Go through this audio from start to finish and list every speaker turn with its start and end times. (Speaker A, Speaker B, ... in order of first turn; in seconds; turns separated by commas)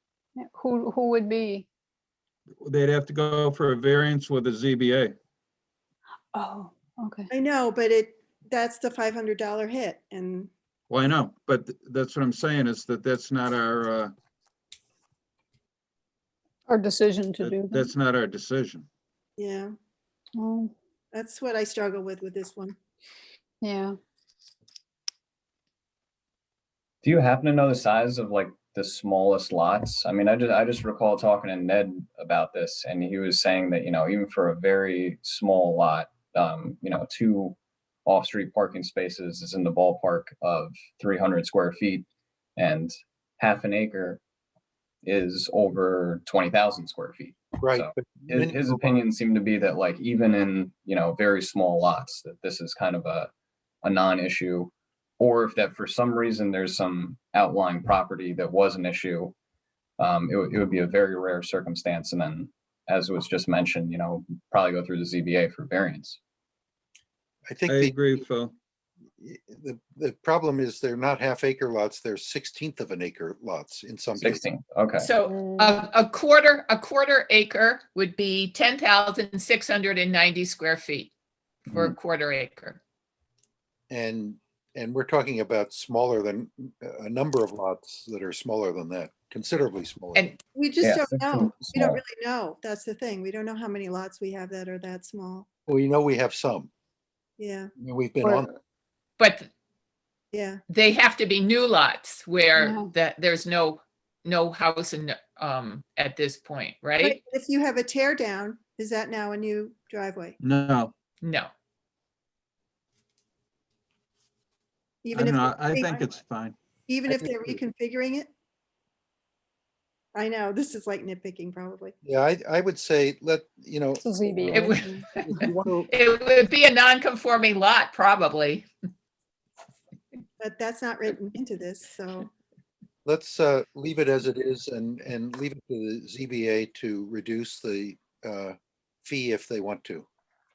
Speaker A: 0.4-1.7, Speaker B: 2.6-5.2, Speaker A: 6.3-7.3, Speaker C: 7.3-10.5, Speaker B: 10.9-14.1, Speaker A: 16.7-17.9, Speaker B: 17.4-18.9, Speaker C: 19.4-19.7, Speaker A: 20.4-20.7, Speaker C: 21.1-22.8, Speaker A: 23.6-24.0, Speaker D: 27.0-44.2, Speaker D: 45.0-53.3, Speaker E: 47.6-48.9, Speaker D: 53.8-59.3, Speaker D: 60.0-66.2, Speaker E: 67.5-68.0, Speaker B: 67.7-68.5, Speaker E: 69.2-74.4, Speaker D: 74.2-75.1, Speaker F: 75.0-81.1, Speaker A: 75.4-75.7, Speaker F: 81.7-82.8, Speaker E: 83.9-90.3, Speaker C: 90.5-95.5, Speaker D: 90.8-92.0, Speaker E: 95.7-96.7, Speaker C: 97.4-97.7, Speaker E: 97.8-98.5, Speaker F: 99.2-99.5, Speaker C: 100.3-100.6, Speaker F: 100.7-107.2, Speaker A: 102.6-102.9, Speaker C: 107.0-110.4, Speaker B: 110.4-110.9, Speaker F: 111.2-111.5, Speaker C: 115.0-116.0, Speaker B: 115.1-116.6, Speaker C: 116.9-118.3, Speaker E: 117.1-117.6, Speaker C: 120.2-122.0, Speaker E: 122.0-125.9, Speaker A: 124.0-125.5, Speaker F: 124.5-128.7, Speaker C: 130.4-132.3, Speaker E: 133.1-140.1